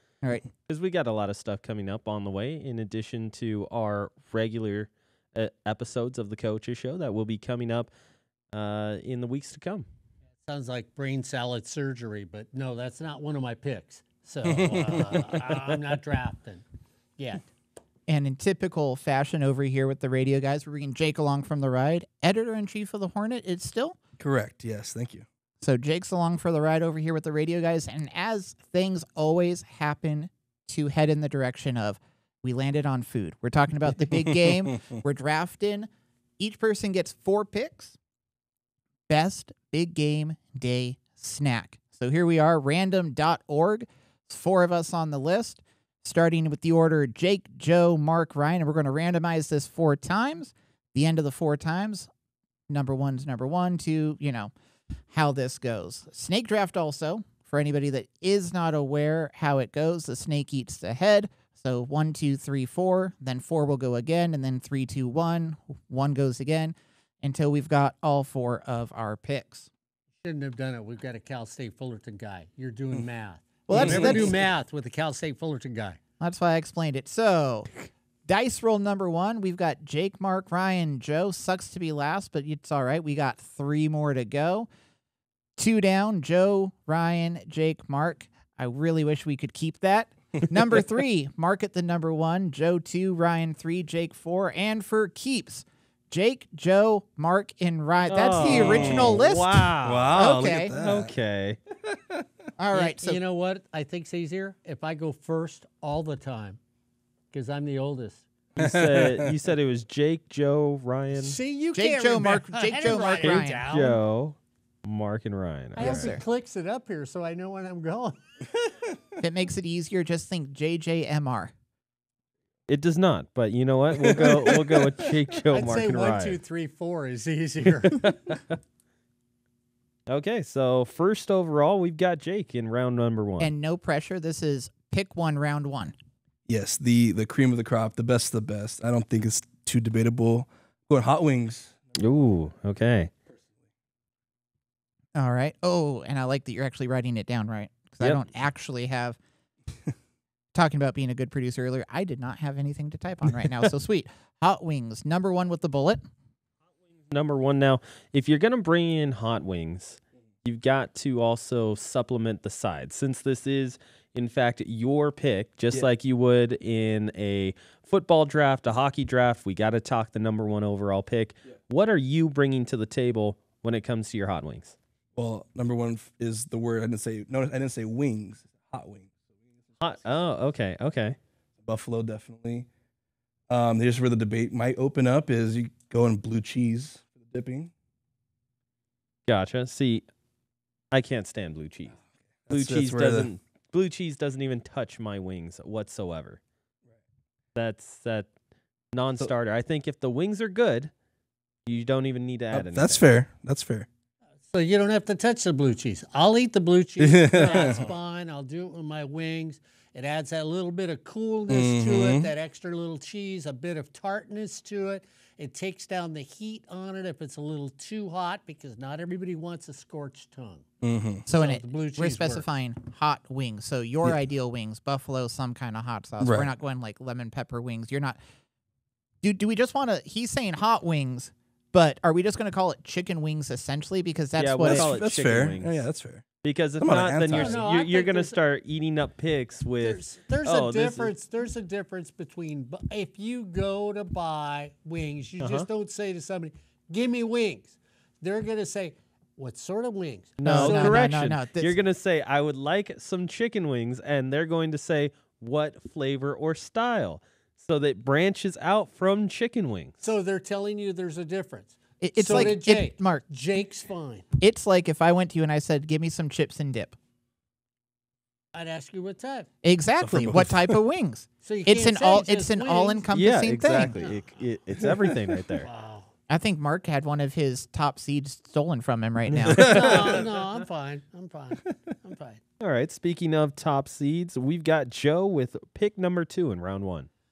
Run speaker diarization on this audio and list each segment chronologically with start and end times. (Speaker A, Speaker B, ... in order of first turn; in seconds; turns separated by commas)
Speaker A: 0.7-7.9, Speaker A: 8.5-9.8, Speaker B: 10.4-16.6, Speaker C: 14.4-15.3, Speaker B: 17.2-17.5, Speaker D: 18.1-24.0, Speaker C: 24.2-25.2, Speaker D: 25.6-38.0, Speaker C: 34.2-34.5, Speaker D: 39.1-52.1, Speaker D: 52.7-54.5, Speaker D: 55.1-69.7, Speaker B: 70.2-76.0, Speaker D: 73.7-74.4, Speaker C: 73.8-74.3, Speaker D: 76.2-77.7, Speaker D: 78.2-84.7, Speaker D: 85.6-100.7, Speaker A: 98.1-100.1, Speaker C: 98.4-99.2, Speaker C: 99.8-101.1, Speaker A: 100.7-101.6, Speaker C: 101.9-102.2, Speaker D: 102.6-103.2, Speaker B: 102.7-106.6, Speaker B: 107.3-108.2, Speaker C: 108.5-109.3, Speaker A: 108.6-111.4, Speaker B: 111.2-114.0, Speaker D: 111.7-113.6, Speaker A: 113.2-116.1, Speaker B: 115.8-118.2, Speaker D: 115.8-116.2, Speaker D: 119.2-121.5, Speaker A: 122.7-126.4, Speaker C: 124.0-125.1, Speaker B: 125.5-128.1, Speaker A: 128.0-128.4, Speaker A: 130.1-133.5, Speaker D: 133.4-135.9, Speaker C: 136.4-141.7, Speaker A: 142.0-143.1, Speaker D: 145.2-149.2, Speaker D: 150.5-156.1, Speaker A: 157.1-174.7, Speaker C: 175.2-179.1, Speaker A: 179.8-181.2, Speaker C: 181.6-182.7, Speaker C: 183.5-187.7, Speaker A: 189.3-190.0, Speaker A: 190.9-191.9, Speaker C: 192.5-193.3, Speaker A: 192.5-196.4, Speaker A: 197.5-198.3, Speaker A: 198.9-200.9, Speaker A: 201.7-203.1, Speaker C: 202.5-203.9, Speaker B: 204.5-220.6, Speaker C: 207.0-207.9, Speaker C: 211.5-212.3, Speaker C: 220.8-221.2, Speaker D: 221.3-228.2, Speaker B: 221.3-222.4, Speaker C: 226.2-226.5, Speaker D: 229.2-234.9, Speaker A: 234.4-235.8, Speaker C: 234.6-236.2, Speaker A: 236.4-241.1, Speaker C: 236.8-237.6, Speaker B: 237.3-238.4, Speaker B: 239.8-251.2, Speaker A: 245.4-245.7, Speaker A: 250.4-260.0, Speaker D: 250.4-251.7, Speaker B: 260.0-264.2, Speaker D: 262.0-263.2, Speaker D: 264.4-266.9, Speaker B: 268.5-269.5, Speaker D: 269.6-274.0, Speaker C: 270.0-270.8, Speaker B: 271.4-273.0, Speaker A: 273.1-275.7, Speaker B: 273.7-274.3, Speaker C: 274.8-275.1, Speaker B: 275.6-276.1, Speaker D: 276.3-279.9, Speaker A: 279.3-280.2, Speaker C: 279.4-280.2, Speaker B: 279.6-282.4, Speaker A: 282.6-287.1